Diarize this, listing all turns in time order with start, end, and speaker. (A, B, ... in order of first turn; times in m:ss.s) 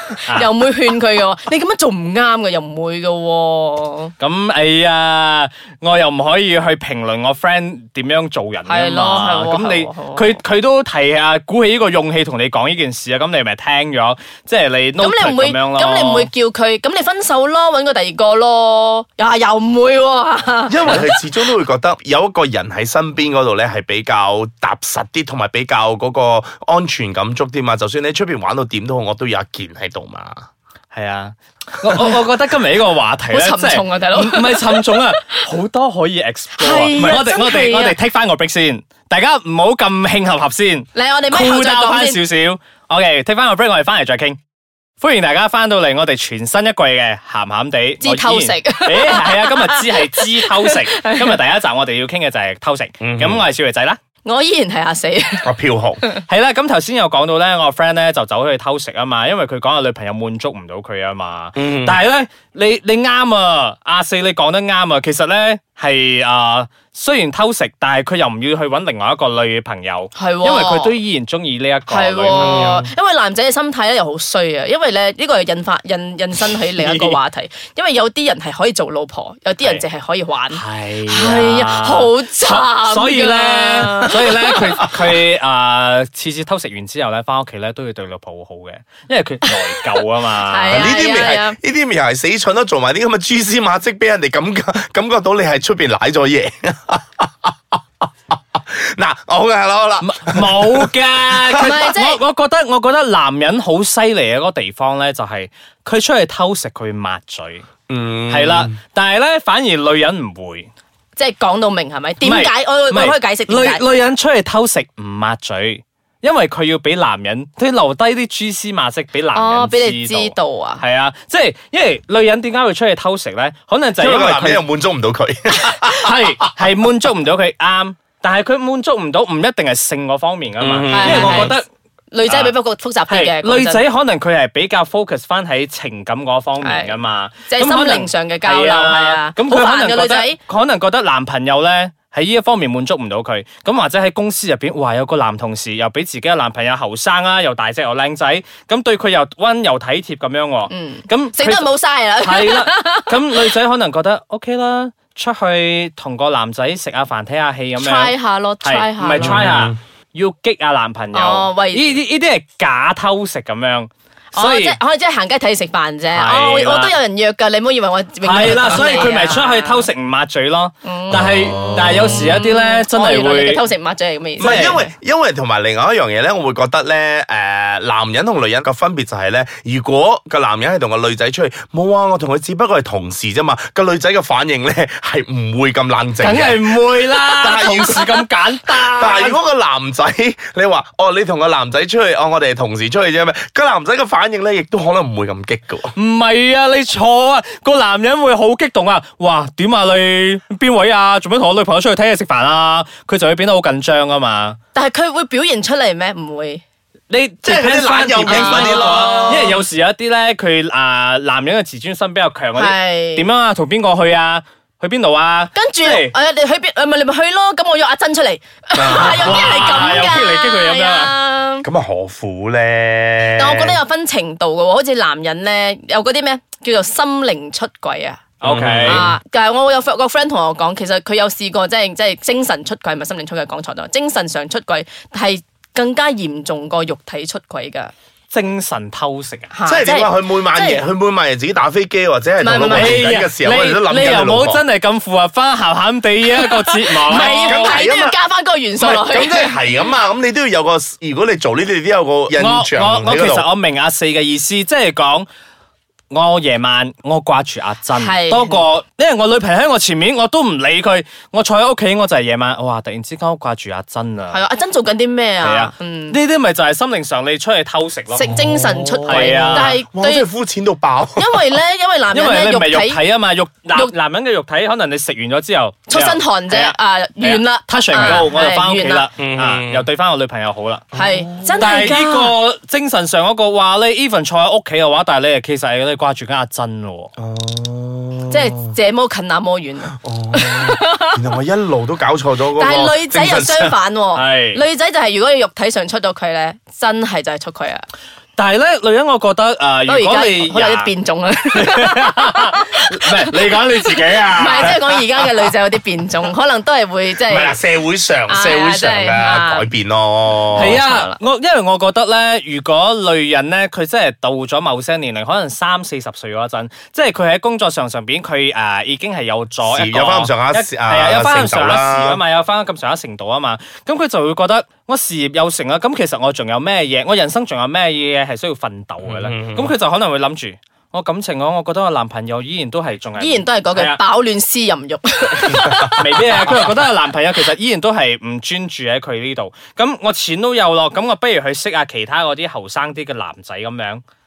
0:00.2-0:00.5 A
0:00.3-0:04.1 B
0:04.2-0:16.3 A
0:08.7-0:10.4 B
0:15.0-0:21.1 B
0:20.7-0:30.5 C
0:30.9-0:44.4 A
0:33.3-0:34.9 B
0:36.6-0:38.0 B
0:37.0-0:37.3 C
0:40.9-0:42.2 B
0:45.0-0:54.0 A
0:48.0-0:51.3 B
0:53.0-0:53.4 C
0:54.2-0:55.5 B
0:55.4-0:56.0 C
0:56.3-1:12.8 A
1:01.6-1:02.0 C
1:10.2-1:11.0 B
1:11.9-1:24.3 B
1:12.3-1:12.9 C
1:16.7-1:17.2 A
1:20.5-1:30.9 A
1:30.5-1:31.6 B
1:30.7-1:37.5 C
1:38.3-1:41.7 C
1:40.0-1:47.7 A
1:41.6-1:42.2 B
1:47.9-1:48.8 C
1:48.3-1:50.7 A
1:51.2-1:53.8 B
1:52.2-2:04.6 A
1:59.3-2:00.8 B
2:04.0-2:06.3 C
2:05.6-2:11.7 A
2:10.6-2:11.6 C
2:10.9-2:11.6 B
2:12.1-2:13.9 B
2:12.3-2:12.6 A
2:13.1-2:44.8 A
2:16.6-2:17.0 B
2:17.5-2:20.4 B
2:30.7-2:33.2 B
2:37.8-2:39.4 B
2:39.2-2:39.8 C
2:41.1-2:42.0 B
2:44.3-2:49.9 B
2:46.1-2:46.9 A
2:48.2-2:53.6 A
2:50.8-2:54.9 B
2:51.1-2:52.4 C
2:54.4-2:54.8 A
2:54.4-3:06.7 C
3:06.2-3:09.4 A
3:07.3-3:08.1 C
3:09.0-3:15.9 C
3:16.0-3:24.6 A
3:24.7-3:26.6 B
3:27.1-3:36.1 A
3:27.4-3:29.6 C
3:28.3-3:29.6 B
3:32.6-3:33.3 B
3:35.6-3:41.7 B
3:38.8-3:40.1 C
3:38.9-3:41.1 A
3:41.6-3:43.8 C
3:43.4-3:48.3 B
3:48.4-3:49.1 A
3:48.4-3:49.1 C
3:48.8-3:57.9 B
3:58.3-3:59.5 A
3:59.5-4:00.8 B
3:59.7-4:04.6 C
4:02.4-4:03.0 B
4:02.7-4:07.8 A
4:06.4-4:09.5 B
4:07.2-4:08.2 C
4:08.8-4:13.5 C
4:12.4-4:15.3 A
4:16.1-4:24.4 A
4:17.9-4:18.6 B
4:24.3-4:26.2 B
4:25.4-4:28.4 A
4:28.1-4:30.3 B
4:28.3-4:31.4 C
4:29.0-4:29.8 A
4:31.2-4:33.0 B
4:32.1-4:40.9 A
4:35.9-4:39.1 B
4:39.2-4:39.9 C
4:40.9-4:41.8 C
4:40.9-4:42.3 B
4:41.6-4:47.1 A
4:47.2-4:48.7 C
4:48.3-4:51.2 B
4:49.9-4:53.8 C
4:52.6-4:57.8 B
4:54.1-4:54.6 A
4:58.4-5:00.9 A
4:59.9-5:07.6 B
5:01.5-5:05.0 A
5:07.2-5:10.8 C
5:08.3-5:09.7 B
5:10.6-5:34.0 A
5:10.6-5:11.2 B
5:19.7-5:22.2 C
5:29.1-5:29.7 C
5:33.2-5:36.6 B
5:35.4-5:44.0 A
5:35.6-5:35.9 C